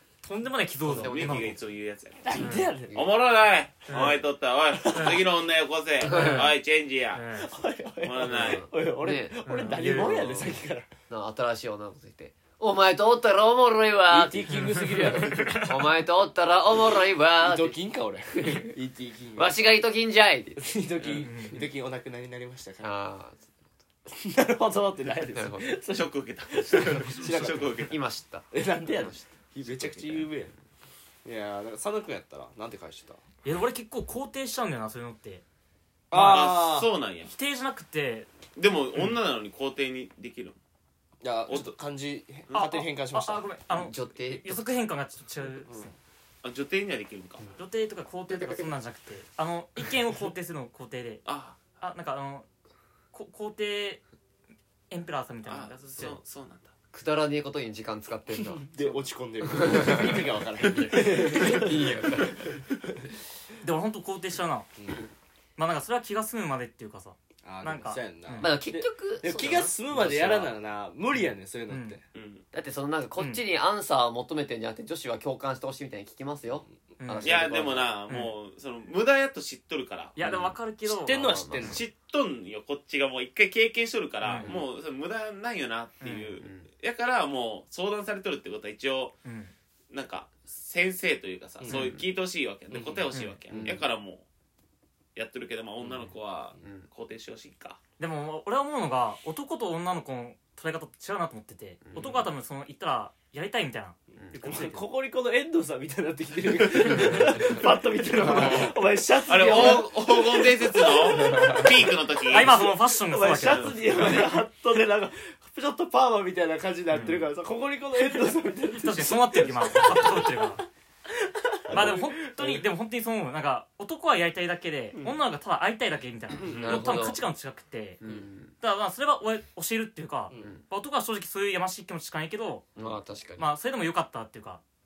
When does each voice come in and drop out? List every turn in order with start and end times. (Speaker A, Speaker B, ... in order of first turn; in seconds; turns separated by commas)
Speaker A: 0.2-1.6, Speaker B: 0.8-7.2, Speaker C: 0.8-1.6, Speaker D: 2.2-3.0, Speaker A: 2.4-2.7, Speaker A: 3.9-4.2, Speaker D: 4.7-5.2, Speaker A: 5.0-5.2, Speaker A: 6.0-6.5, Speaker C: 6.0-6.5, Speaker A: 7.1-7.5, Speaker D: 7.4-10.9, Speaker B: 8.0-8.7, Speaker C: 8.3-17.8, Speaker A: 9.5-10.4, Speaker D: 14.1-15.7, Speaker A: 14.5-15.8, Speaker D: 17.4-19.6, Speaker C: 18.4-18.7, Speaker C: 19.4-20.7, Speaker D: 20.6-22.9, Speaker A: 21.2-21.7, Speaker C: 22.8-23.5, Speaker D: 24.1-27.9, Speaker C: 25.3-25.8, Speaker B: 25.9-28.0, Speaker C: 27.9-29.2, Speaker D: 28.5-30.5, Speaker B: 29.6-30.3, Speaker D: 31.2-33.2, Speaker A: 33.4-35.4, Speaker D: 36.1-36.9, Speaker B: 36.1-37.3, Speaker A: 37.3-38.3, Speaker B: 38.6-40.6, Speaker D: 41.2-43.4, Speaker A: 42.5-45.9, Speaker C: 43.7-44.6, Speaker B: 46.4-47.5, Speaker A: 47.6-52.5, Speaker C: 48.3-48.6, Speaker B: 51.2-51.6, Speaker A: 53.1-54.0, Speaker A: 54.9-56.2, Speaker B: 55.5-56.7, Speaker C: 56.9-62.6, Speaker D: 58.5-63.1, Speaker A: 63.6-64.7, Speaker D: 64.8-65.1, Speaker A: 65.6-68.5, Speaker D: 67.4-72.0, Speaker C: 68.4-70.5, Speaker A: 71.7-72.0, Speaker B: 72.1-72.4, Speaker C: 72.5-77.9, Speaker D: 76.7-77.6, Speaker A: 77.0-77.3, Speaker B: 77.2-80.4, Speaker A: 80.2-81.4, Speaker D: 80.3-81.8, Speaker C: 81.1-81.8, Speaker B: 81.6-89.2, Speaker A: 84.2-84.5, Speaker A: 86.0-86.3, Speaker C: 86.4-86.7, Speaker A: 89.2-89.5, Speaker B: 89.9-94.3, Speaker D: 91.6-91.9, Speaker C: 91.7-92.1, Speaker D: 92.7-93.8, Speaker A: 93.1-93.4, Speaker B: 95.2-97.8, Speaker C: 96.6-96.9, Speaker A: 98.0-104.9, Speaker C: 101.8-102.2, Speaker D: 104.4-122.7, Speaker C: 106.9-107.5, Speaker B: 108.2-108.8, Speaker B: 109.3-112.6, Speaker A: 112.3-114.3, Speaker B: 113.4-114.2, Speaker A: 116.9-117.2, Speaker A: 118.8-120.6, Speaker A: 121.7-128.0, Speaker B: 126.4-126.9, Speaker C: 126.5-127.2, Speaker C: 128.0-128.6, Speaker A: 128.6-132.7, Speaker D: 130.3-130.6, Speaker C: 132.8-133.5, Speaker A: 133.4-134.6